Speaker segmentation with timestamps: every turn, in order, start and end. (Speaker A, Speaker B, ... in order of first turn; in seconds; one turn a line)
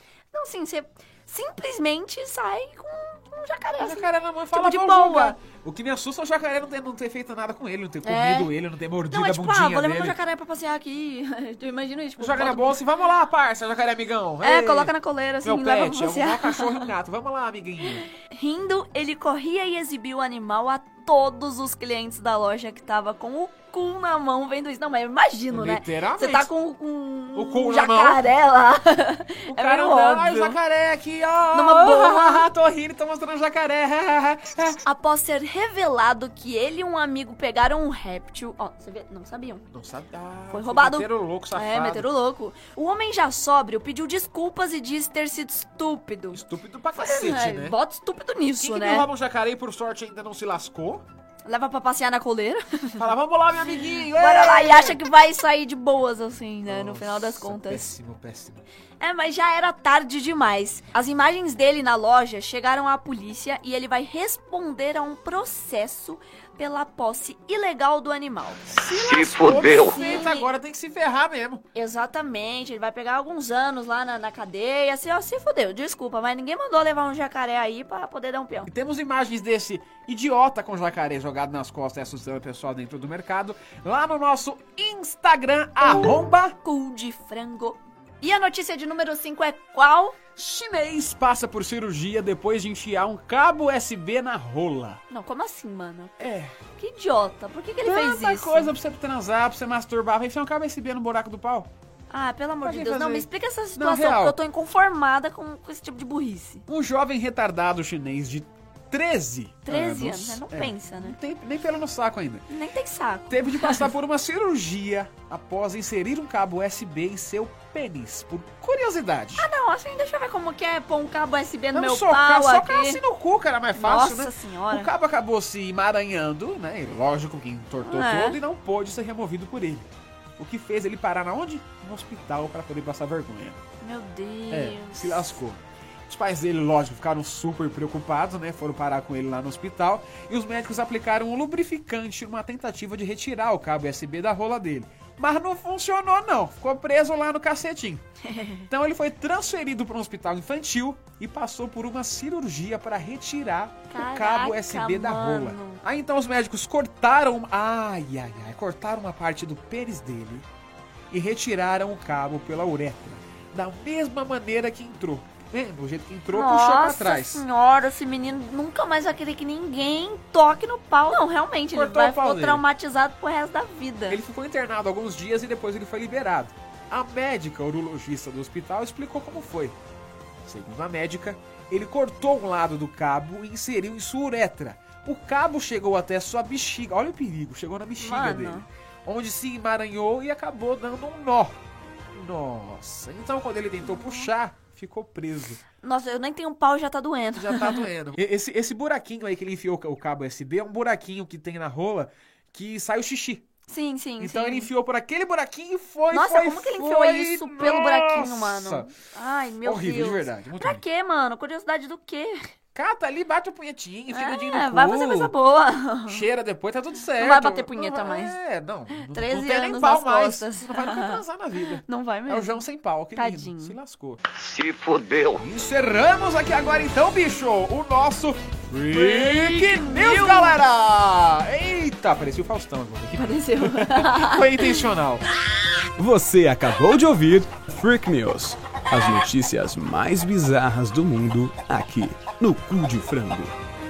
Speaker A: 0.3-5.4
Speaker B: 3.8-10.2
Speaker A: 8.0-8.5
Speaker A: 9.1-12.8
Speaker B: 12.2-14.9
Speaker A: 14.4-16.9
Speaker B: 15.4-18.1
Speaker A: 18.2-30.6
Speaker B: 25.5-26.5
Speaker B: 27.4-28.3
Speaker B: 29.5-34.8
Speaker A: 31.5-32.5
Speaker A: 34.9-39.6
Speaker B: 39.7-42.1
Speaker A: 40.5-46.4
Speaker B: 46.3-47.8
Speaker A: 47.0-49.1
Speaker B: 48.6-51.0
Speaker A: 51.5-53.1
Speaker B: 53.0-55.0
Speaker A: 54.0-57.9
Speaker B: 56.7-58.6
Speaker A: 59.0-68.6
Speaker B: 68.7-71.6
Speaker C: 68.9-70.0
Speaker A: 69.7-70.5
Speaker A: 71.8-78.7
Speaker B: 78.7-86.6
Speaker A: 86.6-90.2
Speaker B: 90.4-95.0
Speaker A: 95.1-98.7
Speaker B: 96.2-96.5
Speaker B: 97.8-101.7
Speaker A: 102.1-106.6
Speaker B: 102.6-104.4
Speaker B: 106.7-112.5
Speaker A: 109.7-111.2
Speaker A: 112.5-113.9
Speaker B: 113.3-119.5
Speaker A: 119.4-123.0
Speaker B: 121.7-133.6
Speaker A: 123.7-124.9
Speaker A: 127.8-128.4
Speaker A: 133.8-135.3
Speaker B: 134.5-148.0
Speaker A: 148.3-148.7
Speaker B: 148.7-160.5
Speaker A: 153.9-155.8
Speaker B: 161.1-167.4
Speaker A: 166.3-174.2
Speaker B: 171.7-172.6
Speaker B: 174.1-179.8
Speaker B: 180.5-191.6
Speaker A: 188.0-188.7
Speaker B: 192.1-195.6
Speaker A: 193.8-194.3
Speaker A: 195.8-197.8
Speaker B: 197.3-203.4
Speaker A: 203.7-204.7
Speaker B: 204.2-208.9
Speaker A: 206.1-212.4
Speaker B: 209.6-210.8
Speaker B: 212.8-215.3
Speaker A: 214.1-216.3
Speaker B: 216.1-224.2
Speaker A: 217.2-218.4
Speaker A: 218.9-223.8
Speaker C: 224.4-225.4
Speaker B: 225.3-235.2
Speaker A: 228.9-230.6
Speaker A: 233.1-234.9
Speaker B: 236.0-237.8
Speaker D: 236.2-236.5
Speaker D: 237.4-243.5
Speaker B: 242.8-243.5